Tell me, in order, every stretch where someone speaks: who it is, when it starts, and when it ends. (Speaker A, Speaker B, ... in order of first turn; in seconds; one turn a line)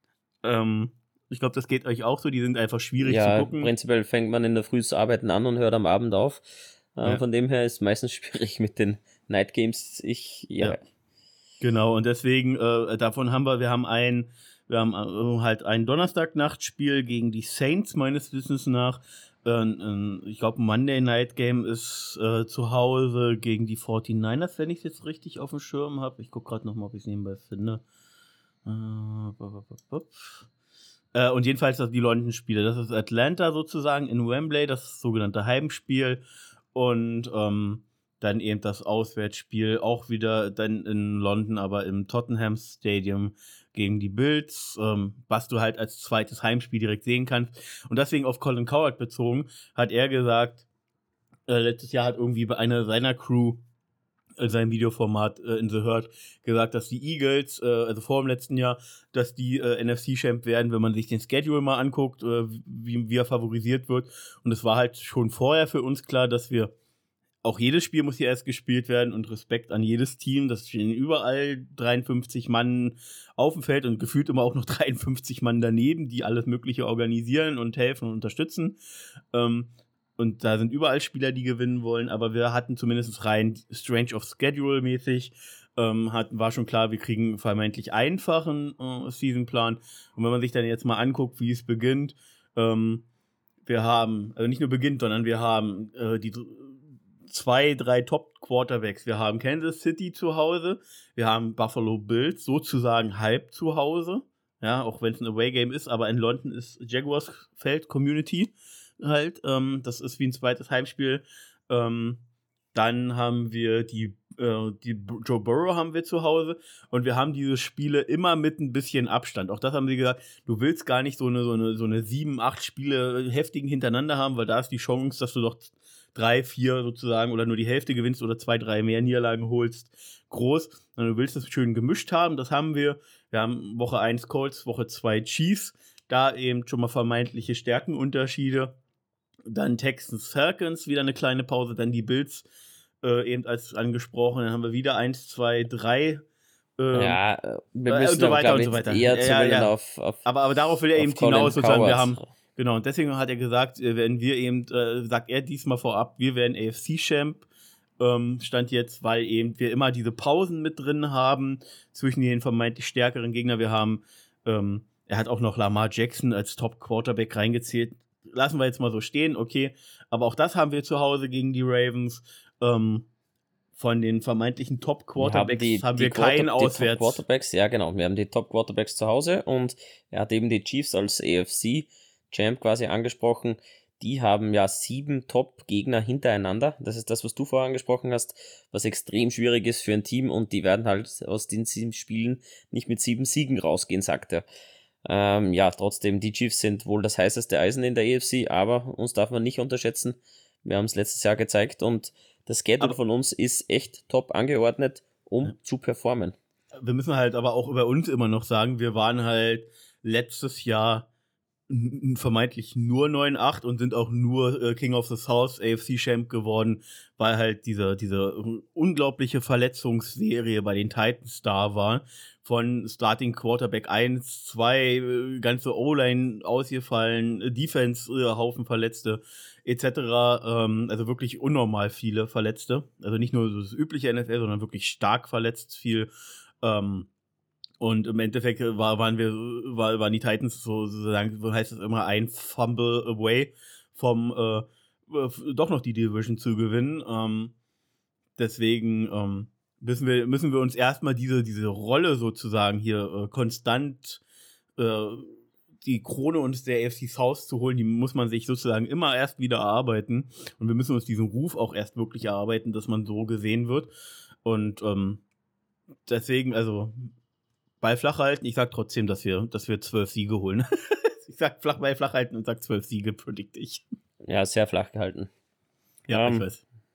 Speaker A: 0.4-3.7
Speaker B: 3.0-10.8
Speaker A: 11.6-27.8
Speaker A: 28.6-30.5
Speaker A: 31.1-50.6
Speaker A: 51.5-53.6
Speaker A: 54.4-66.7
Speaker A: 67.4-78.8
Speaker A: 79.3-93.0
Speaker A: 93.6-112.2
Speaker A: 112.7-138.8
Speaker A: 139.5-142.5
Speaker A: 143.0-146.2
Speaker A: 146.8-147.2
Speaker B: 146.9-150.2
Speaker A: 147.9-149.7
Speaker A: 150.2-157.4
Speaker B: 150.9-152.3
Speaker A: 158.0-173.1
Speaker A: 173.8-177.2
Speaker B: 175.2-194.4
Speaker B: 195.0-206.3
Speaker A: 206.8-211.1
Speaker A: 211.7-236.1
Speaker A: 236.6-237.1
Speaker A: 237.8-247.5
Speaker A: 248.4-254.2
Speaker A: 254.8-263.9
Speaker A: 264.4-265.2
Speaker A: 266.1-267.1
Speaker A: 267.8-273.9
Speaker B: 274.2-275.3
Speaker A: 276.1-276.6
Speaker B: 276.1-276.4